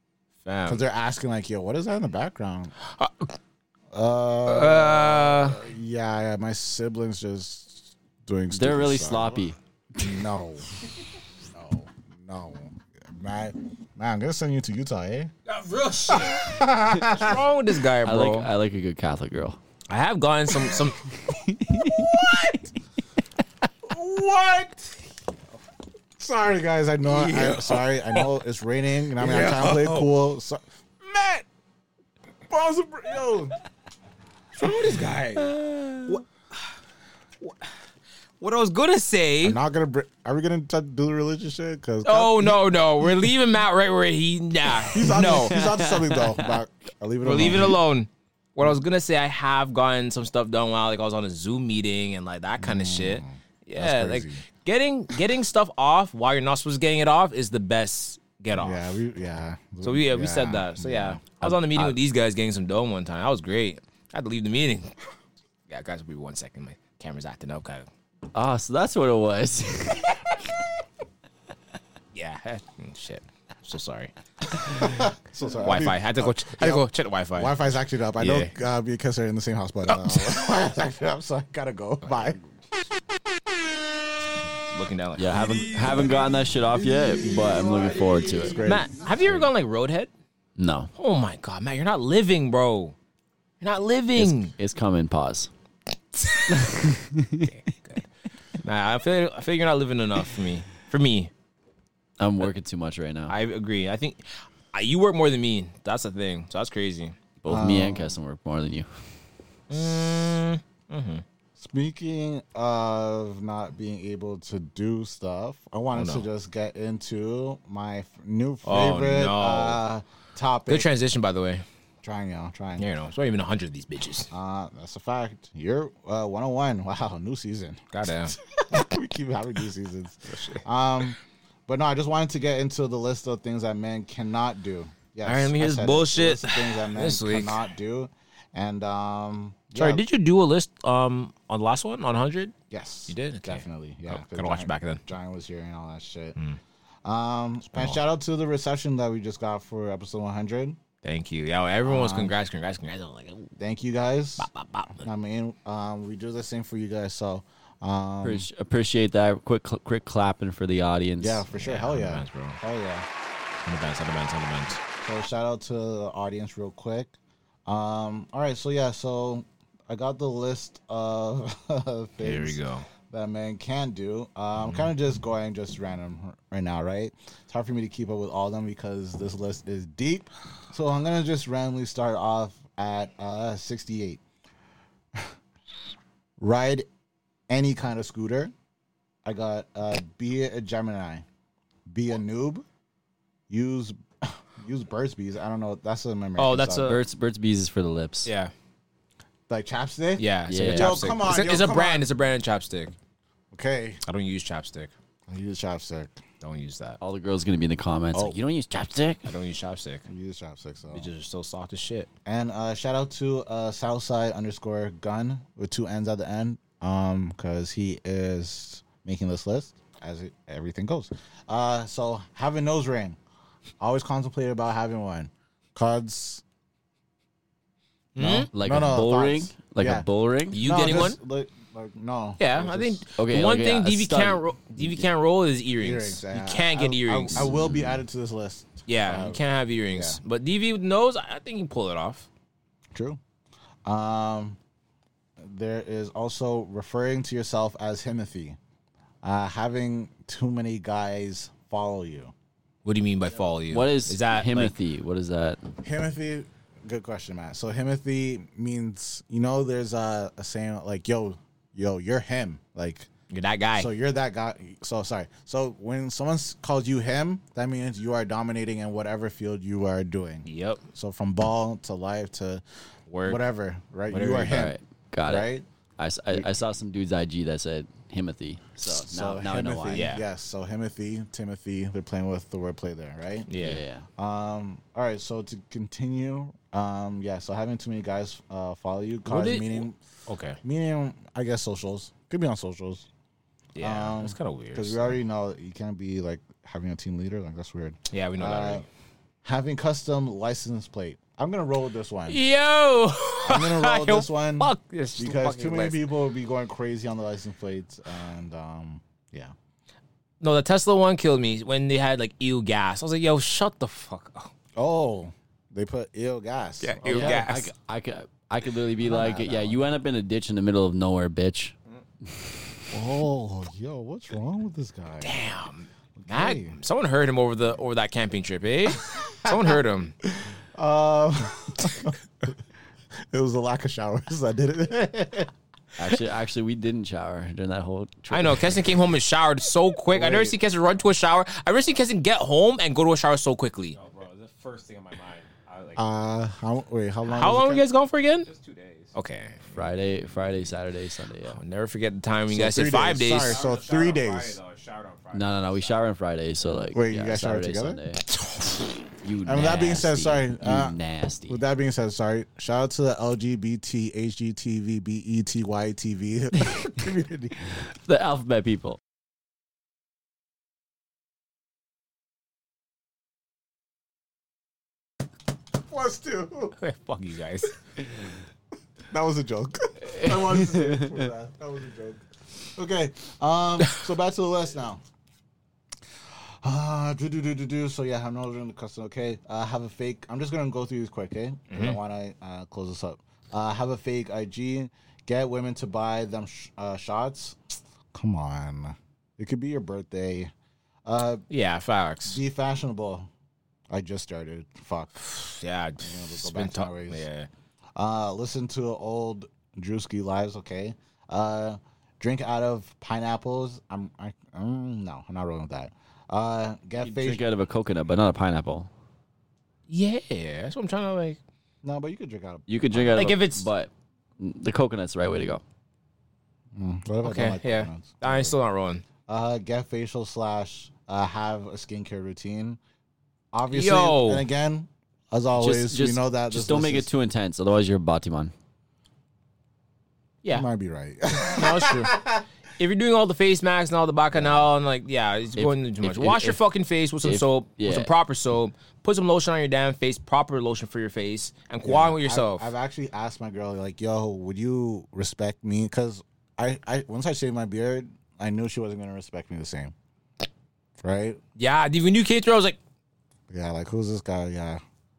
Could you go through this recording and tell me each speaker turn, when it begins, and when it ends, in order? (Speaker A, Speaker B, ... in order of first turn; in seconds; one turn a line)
Speaker A: 0.5-0.8
Speaker B: 0.7-2.7
Speaker A: 2.9-3.3
Speaker B: 3.9-10.7
Speaker A: 4.5-5.6
Speaker C: 8.5-9.6
Speaker B: 11.5-15.3
Speaker A: 15.5-18.5
Speaker B: 16.1-17.4
Speaker C: 18.0-19.6
Speaker A: 19.9-21.0
Speaker C: 21.3-22.1
Speaker A: 21.9-22.6
Speaker B: 23.8-24.9
Speaker B: 26.2-31.4
Speaker A: 27.1-28.3
Speaker A: 29.2-30.1
Speaker B: 32.5-33.5
Speaker A: 34.6-36.6
Speaker B: 34.6-35.1
Speaker C: 35.4-36.1
Speaker A: 37.4-37.7
Speaker A: 38.4-39.6
Speaker B: 39.4-43.3
Speaker A: 42.0-45.8
Speaker B: 44.9-47.8
Speaker A: 47.2-58.9
Speaker B: 52.6-54.4
Speaker B: 58.5-61.2
Speaker A: 59.8-64.9
Speaker C: 61.4-62.0
Speaker A: 65.7-67.9
Speaker C: 68.3-70.3
Speaker A: 72.1-74.1
Speaker B: 74.7-82.4
Speaker A: 75.6-78.5
Speaker A: 79.9-80.2
Speaker A: 84.7-86.0
Speaker C: 85.2-88.6
Speaker B: 88.2-89.5
Speaker A: 88.6-90.1
Speaker C: 90.6-90.9
Speaker A: 91.0-93.0
Speaker A: 93.6-94.5
Speaker C: 94.2-95.5
Speaker A: 96.2-96.6
Speaker C: 96.5-97.5
Speaker A: 97.4-98.1
Speaker A: 98.6-101.3
Speaker C: 102.2-103.4
Speaker A: 103.3-107.2
Speaker C: 107.4-108.9
Speaker B: 107.5-108.2
Speaker A: 109.7-111.2
Speaker B: 111.6-120.9
Speaker A: 116.0-116.3
Speaker A: 118.7-119.8
Speaker A: 120.7-121.6
Speaker B: 122.0-122.9
Speaker A: 122.8-124.3
Speaker B: 124.3-140.0
Speaker A: 127.9-128.4
Speaker A: 130.3-130.6
Speaker A: 135.2-137.6
Speaker A: 139.8-142.5
Speaker B: 142.7-146.4
Speaker A: 143.1-145.0
Speaker B: 147.1-150.8
Speaker A: 147.7-148.0
Speaker A: 151.0-153.5
Speaker B: 151.8-152.3
Speaker B: 153.6-158.5
Speaker A: 154.4-155.1
Speaker C: 158.2-161.4
Speaker B: 161.2-163.1
Speaker A: 161.5-162.6
Speaker A: 163.7-164.8
Speaker B: 165.0-167.2
Speaker B: 167.7-172.6
Speaker A: 172.2-172.9
Speaker B: 173.1-184.2
Speaker B: 186.4-186.9
Speaker B: 187.5-188.5
Speaker B: 189.2-191.2
Speaker B: 191.9-192.7
Speaker B: 193.5-197.0
Speaker A: 196.4-197.0
Speaker C: 196.9-198.3
Speaker A: 198.3-198.5
Speaker B: 199.5-202.1
Speaker A: 200.2-202.9
Speaker C: 200.5-201.2
Speaker B: 203.5-204.0
Speaker A: 204.1-204.9
Speaker B: 205.3-206.2
Speaker A: 206.4-207.0
Speaker C: 207.0-209.3
Speaker A: 209.3-210.1
Speaker B: 210.1-211.1
Speaker A: 210.9-212.1
Speaker B: 212.2-223.2
Speaker B: 223.8-226.4
Speaker A: 228.2-228.5
Speaker B: 228.2-233.0
Speaker C: 228.5-230.6
Speaker A: 230.5-231.2
Speaker A: 232.4-237.5
Speaker C: 233.2-235.0
Speaker B: 235.8-239.4
Speaker C: 237.4-238.0
Speaker A: 238.9-242.3
Speaker B: 239.9-240.2
Speaker B: 242.9-243.2
Speaker B: 243.8-244.6
Speaker B: 245.4-248.6
Speaker B: 249.2-252.3
Speaker A: 252.8-254.7
Speaker C: 253.7-255.6
Speaker B: 255.8-263.1
Speaker A: 263.3-263.9
Speaker B: 263.8-272.6
Speaker A: 270.4-270.8
Speaker A: 273.1-273.4
Speaker B: 273.2-275.7
Speaker C: 274.1-280.1
Speaker B: 276.3-276.6
Speaker B: 278.9-283.5
Speaker A: 279.9-280.2
Speaker A: 283.5-283.8
Speaker C: 283.6-284.1
Speaker B: 284.2-290.0
Speaker A: 289.3-290.6
Speaker B: 290.6-293.1
Speaker A: 293.8-295.2
Speaker B: 293.8-298.9
Speaker A: 298.1-298.9
Speaker B: 299.4-302.4
Speaker A: 302.3-306.1
Speaker B: 303.4-309.5
Speaker A: 310.4-314.5
Speaker B: 314.8-317.5
Speaker A: 316.8-317.7
Speaker C: 317.0-321.8
Speaker B: 319.0-319.9
Speaker B: 322.9-325.4
Speaker A: 325.2-330.1
Speaker B: 326.2-326.8
Speaker B: 330.3-332.6
Speaker B: 333.3-335.5
Speaker C: 336.0-338.8
Speaker A: 338.3-344.0
Speaker B: 340.1-340.6
Speaker D: 343.9-346.1
Speaker B: 346.0-347.9
Speaker A: 347.2-348.5
Speaker D: 348.4-349.2
Speaker A: 349.1-349.7
Speaker C: 349.7-351.6
Speaker D: 350.2-350.8
Speaker A: 351.5-353.6
Speaker B: 352.5-354.6
Speaker D: 353.3-356.1
Speaker C: 355.3-358.2
Speaker B: 356.9-358.0
Speaker C: 359.2-361.6
Speaker B: 359.4-361.0
Speaker B: 361.5-367.6
Speaker C: 367.7-369.0
Speaker B: 375.8-376.8
Speaker A: 376.8-377.7
Speaker B: 379.1-382.2
Speaker B: 382.8-385.0
Speaker B: 386.6-397.6
Speaker A: 391.7-392.0
Speaker B: 398.1-400.5
Speaker B: 401.1-401.4
Speaker A: 401.5-402.4
Speaker B: 402.3-403.3
Speaker B: 403.9-405.3
Speaker A: 405.2-407.5
Speaker B: 406.0-407.3
Speaker B: 408.0-417.4
Speaker C: 417.0-418.9
Speaker A: 419.9-421.4
Speaker B: 421.8-423.2
Speaker C: 422.7-425.6
Speaker A: 423.1-423.7
Speaker B: 426.8-428.6
Speaker A: 427.2-429.0
Speaker B: 429.3-432.8
Speaker B: 433.5-437.1
Speaker A: 433.7-434.5
Speaker C: 435.6-438.5
Speaker B: 440.5-442.4
Speaker A: 441.5-442.2
Speaker A: 442.8-452.7
Speaker B: 444.4-444.7
Speaker C: 445.6-446.6
Speaker C: 447.2-448.1
Speaker B: 451.8-459.9
Speaker B: 461.0-461.4
Speaker A: 461.6-462.8
Speaker B: 463.5-464.8